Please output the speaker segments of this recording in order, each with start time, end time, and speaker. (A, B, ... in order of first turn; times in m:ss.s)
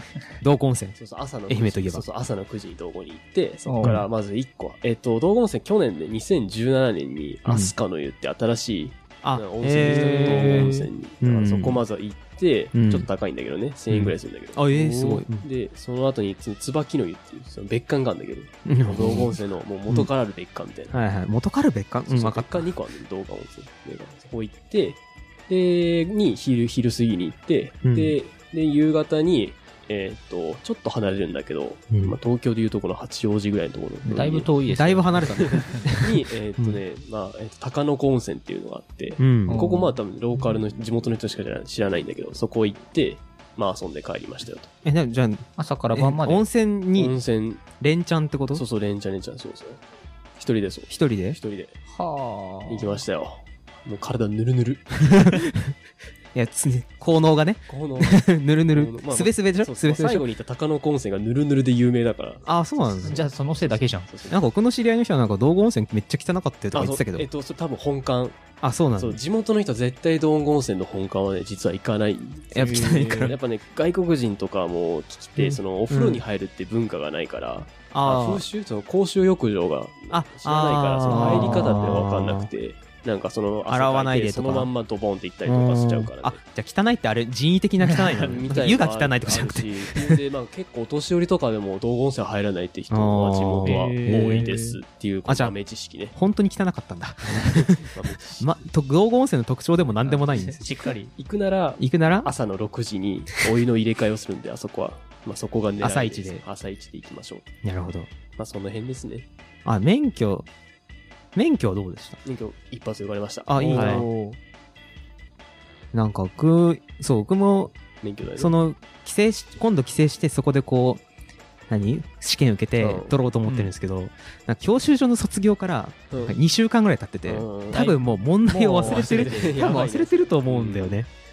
0:00.4-0:01.0 A
0:01.0-0:21.0 B
0:01.5-0:02.0 A
0:03.6-0:04.0 C
0:07.5-0:07.7 A
0:09.2-0:11.8 A
0:10.1-0:10.6 C
0:12.7-0:13.1 A
0:13.9-0:15.4 A
0:18.6-0:19.4 A
0:20.9-0:22.7 A
0:22.1-0:34.5 B
0:27.8-0:28.2 A
0:31.9-0:32.2 A
0:34.1-0:35.8 C
0:34.6-0:36.8 A
0:35.3-0:44.7 B
0:39.2-0:39.6 A
0:39.5-0:39.9 C
0:44.8-0:47.2 A
0:45.6-0:46.4 C
0:46.9-0:47.6 B
0:47.8-0:48.6 A
0:48.5-0:49.8 B
0:50.4-0:51.7 B
0:50.9-0:51.4 A
0:51.9-0:52.9 C
0:52.7-0:55.2 B
0:55.0-0:55.7 A
0:56.3-1:00.2 A
0:57.7-1:02.4 B
1:02.4-1:03.2 A
1:03.0-1:04.1 C
1:03.7-1:04.4 B
1:04.3-1:07.3 A
1:06.7-1:08.4 B
1:08.6-1:09.2 A
1:09.0-1:26.4 B
1:12.5-1:13.4 A
1:15.4-1:16.2 A
1:17.9-1:18.4 A
1:20.1-1:22.5 A
1:21.1-1:21.8 C
1:23.7-1:24.7 A
1:25.4-1:30.2 A
1:27.8-1:28.2 C
1:28.1-1:36.1 B
1:32.9-1:34.5 A
1:33.6-1:34.8 C
1:35.2-1:35.5 A
1:36.1-1:40.7 A
1:37.4-1:38.5 B
1:40.0-1:41.1 C
1:41.1-1:47.5 B
1:41.8-1:42.3 A
1:45.8-1:46.4 A
1:47.6-1:48.1 A
1:48.4-1:49.2 B
1:49.6-1:50.5 A
1:51.3-1:52.2 A
1:52.2-1:54.1 B
1:53.5-1:54.4 A
1:53.7-1:54.0 C
1:55.9-1:57.7 A
1:58.0-1:58.5 B
1:58.4-2:01.0 A
2:01.7-2:11.1 A
2:02.8-2:03.1 B
2:03.4-2:03.7 C
2:06.1-2:06.4 B
2:07.2-2:07.9 B
2:07.7-2:09.5 C
2:08.7-2:11.0 B